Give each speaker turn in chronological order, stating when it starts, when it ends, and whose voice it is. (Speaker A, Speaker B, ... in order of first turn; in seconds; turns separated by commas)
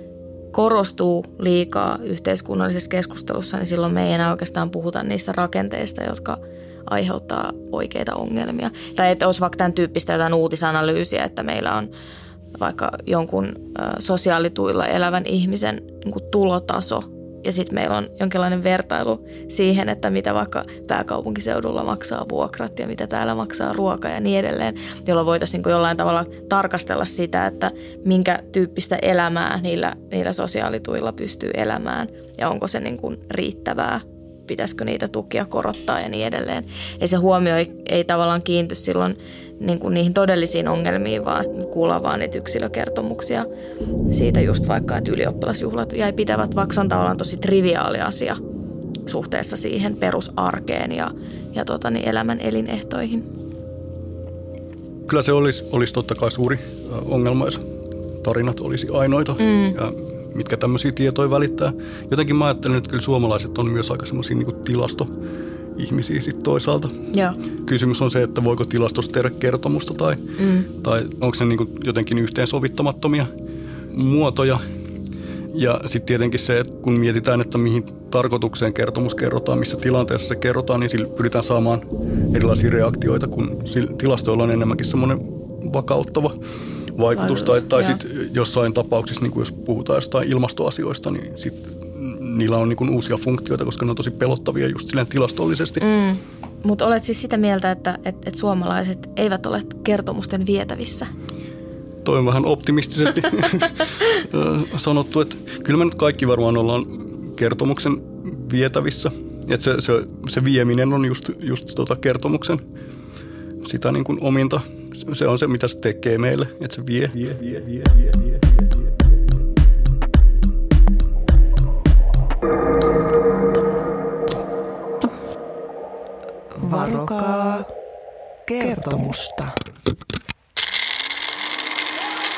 Speaker A: 0.5-11.9, Speaker A: 12.5-43.5, Speaker A: 44.1-48.4, Speaker A: 49.1-53.3, Speaker B: 55.1-57.6, Speaker B: 58.2-65.1, Speaker A: 59.4-59.8, Speaker B: 65.8-66.9, Speaker A: 67.1-67.4, Speaker B: 67.6-70.2, Speaker A: 70.4-70.7, Speaker B: 70.7-73.3, Speaker B: 73.9-74.6, Speaker B: 75.5-86.4, Speaker B: 87.0-95.8, Speaker A: 87.1-88.0, Speaker A: 95.8-101.1, Speaker B: 102.0-112.6, Speaker B: 113.6-118.6, Speaker C: 126.6-127.7, Speaker C: 128.5-129.6